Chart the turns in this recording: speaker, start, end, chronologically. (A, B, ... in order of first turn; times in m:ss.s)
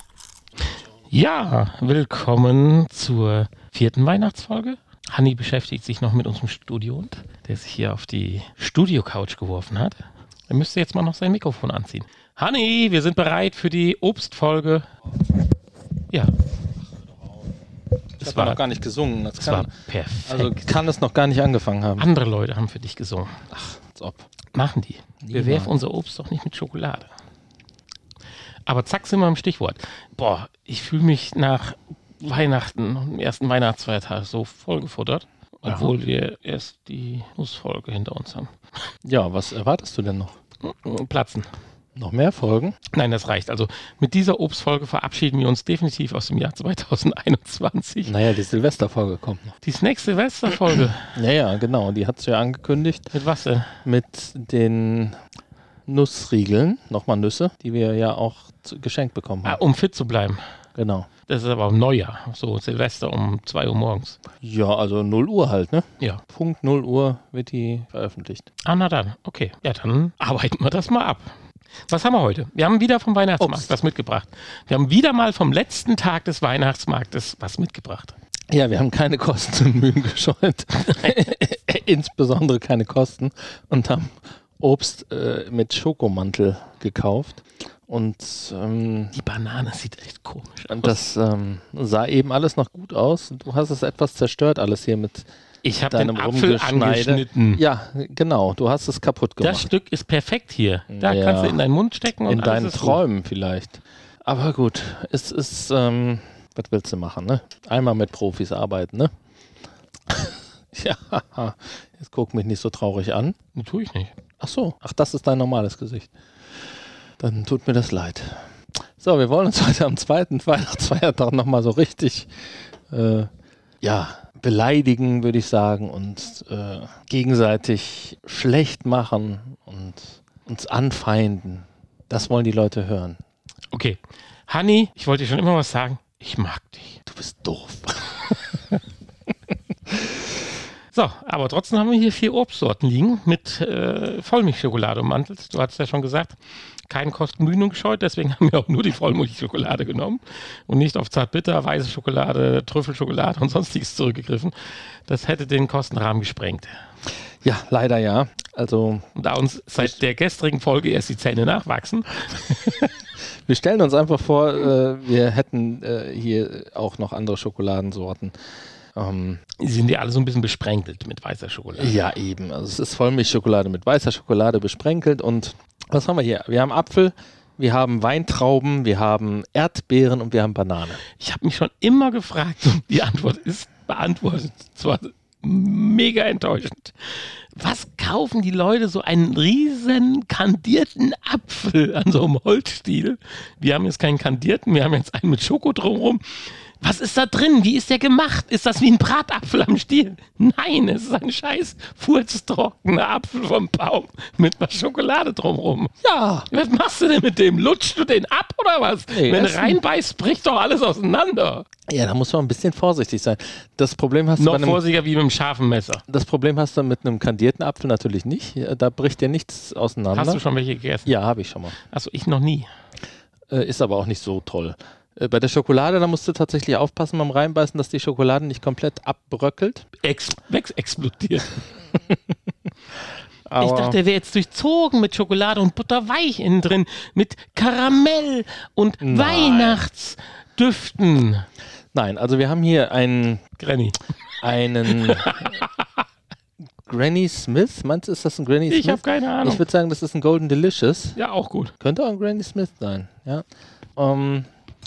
0:01.1-0:14.8 A
0:16.1-0:16.4 A
0:18.2-0:18.6 A
0:18.2-0:19.7 B
0:19.4-0:20.8 A
0:20.3-0:22.1 B
0:22.0-0:23.4 A
0:23.5-0:24.3 B
0:24.5-0:27.1 A
0:25.2-0:25.7 B
0:28.6-0:38.5 A
0:35.6-0:35.9 B
0:39.0-0:40.4 B
0:40.6-0:41.5 A
0:41.9-0:42.8 B
0:42.9-0:48.2 A
0:48.0-0:49.6 B
0:49.6-0:51.2 A
0:51.1-0:53.1 B
0:53.1-0:53.8 A
0:53.8-0:55.2 B
0:55.9-0:59.6 B
0:59.4-1:00.5 A
1:00.7-1:01.1 B
1:01.3-1:04.2 A
1:04.4-1:08.5 B
1:08.6-1:11.3 A
1:11.9-1:18.1 A
1:13.4-1:13.7 B
1:18.5-1:29.2 B
1:29.1-1:31.0 A
1:30.7-1:35.3 B
1:35.6-1:37.6 A
1:35.8-1:39.7 B
1:39.4-1:43.0 A
1:40.9-1:41.6 B
1:42.2-1:49.1 B
1:50.1-1:53.3 B
1:53.5-1:54.1 A
1:54.4-1:56.1 B
1:57.2-2:03.3 B
2:03.8-2:13.2 B
2:13.7-2:17.0 A
2:17.1-2:18.4 B
2:20.9-2:26.4 A
2:26.9-2:36.7 A
2:37.4-2:39.1 B
2:39.1-2:43.0 A
2:43.4-2:49.4 B
2:49.6-2:52.0 A
2:51.8-3:01.0 B
3:01.1-3:25.9 A
3:26.0-3:26.5 B
3:26.5-3:31.6 A
3:29.1-3:29.8 B
3:31.9-3:34.8 B
3:34.4-3:36.0 A
3:36.1-3:40.4 B
3:40.1-3:41.1 A
3:41.0-3:41.8 B
3:41.8-3:42.7 A
3:43.5-3:49.8 B
3:50.0-3:51.7 A
3:53.5-3:54.0 B
3:53.6-4:01.5 A
3:59.0-3:59.8 B
4:01.9-4:03.4 B
4:03.6-4:04.1 A
4:04.4-4:05.6 B
4:04.8-4:05.8 A
4:06.8-4:11.2 B
4:08.7-4:09.6 A
4:11.1-4:11.7 A
4:11.8-4:13.4 B
4:14.0-4:14.5 B